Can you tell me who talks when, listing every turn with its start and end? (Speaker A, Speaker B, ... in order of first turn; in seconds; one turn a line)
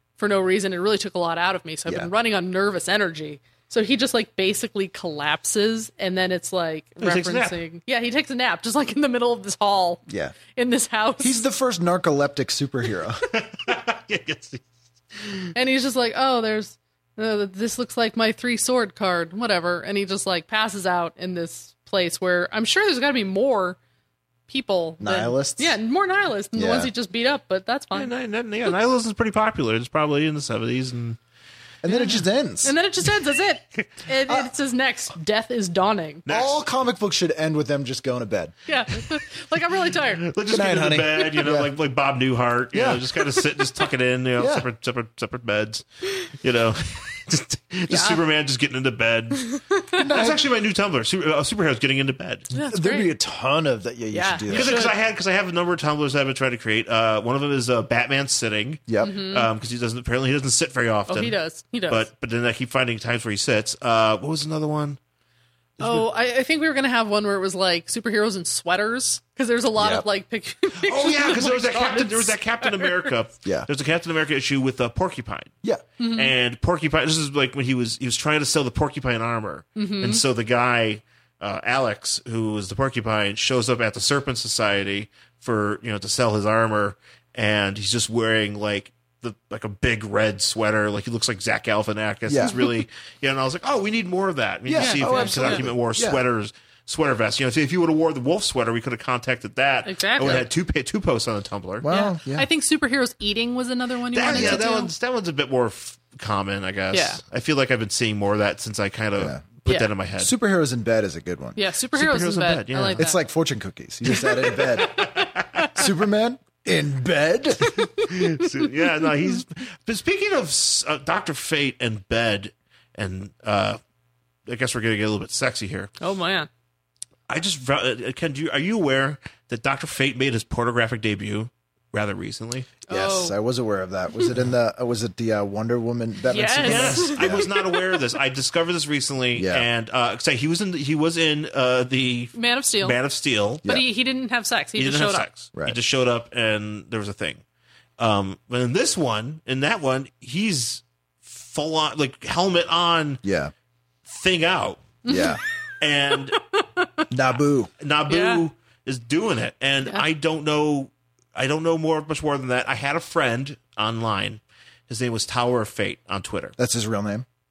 Speaker A: 0.2-11.4
Speaker B: 7.0-7.6
Speaker C: 10.1-10.3
Speaker C: 11.2-13.2
Speaker B: 13.3-14.6
Speaker B: 15.2-15.5
Speaker A: 15.5-23.8
Speaker A: 24.5-28.1
Speaker C: 25.0-25.8
Speaker C: 26.6-26.9
Speaker B: 27.9-31.2
Speaker C: 31.8-32.7
Speaker A: 31.9-36.2
Speaker B: 36.2-36.6
Speaker C: 36.3-38.5
Speaker A: 38.7-40.3
Speaker B: 40.2-52.5
Speaker C: 40.5-41.7
Speaker C: 42.7-43.0
Speaker C: 44.4-44.6
Speaker A: 47.9-48.2
Speaker A: 49.4-50.0
Speaker C: 50.0-50.4
Speaker A: 52.5-53.1
Speaker C: 52.5-54.8
Speaker A: 54.1-54.9
Speaker B: 54.5-61.4
Speaker C: 58.9-59.2
Speaker A: 59.0-59.5
Speaker A: 61.1-62.0
Speaker B: 61.9-65.0
Speaker B: 65.8-66.1
Speaker A: 65.8-73.1
Speaker C: 69.8-70.0
Speaker B: 70.7-75.5
Speaker A: 76.0-76.3
Speaker B: 76.1-101.9
Speaker A: 79.8-80.2
Speaker C: 92.3-92.6
Speaker C: 94.7-96.2
Speaker A: 94.7-95.6
Speaker A: 99.8-100.5
Speaker C: 100.2-100.4
Speaker C: 101.8-102.5
Speaker A: 101.9-104.9
Speaker B: 104.1-110.3
Speaker C: 104.3-104.6
Speaker A: 106.9-107.2
Speaker C: 110.2-111.6
Speaker A: 111.5-113.2
Speaker B: 111.9-113.0
Speaker C: 113.0-115.1
Speaker A: 114.2-115.0
Speaker B: 114.6-115.7
Speaker A: 115.5-115.8
Speaker C: 115.7-117.8
Speaker B: 117.9-123.8
Speaker B: 124.5-125.9
Speaker A: 126.0-126.5
Speaker B: 127.3-132.7
Speaker A: 132.9-133.4
Speaker C: 132.9-137.5
Speaker A: 136.3-138.0
Speaker B: 136.6-143.6
Speaker C: 139.3-139.7
Speaker A: 142.3-143.0
Speaker A: 143.6-145.3
Speaker B: 144.8-147.4
Speaker B: 148.0-153.2
Speaker C: 153.2-153.5
Speaker B: 154.1-155.1
Speaker A: 155.0-155.4
Speaker C: 155.1-155.4
Speaker B: 155.8-156.4
Speaker A: 156.5-157.1
Speaker C: 157.1-157.7
Speaker B: 157.8-166.5
Speaker A: 158.1-158.4
Speaker C: 166.6-167.2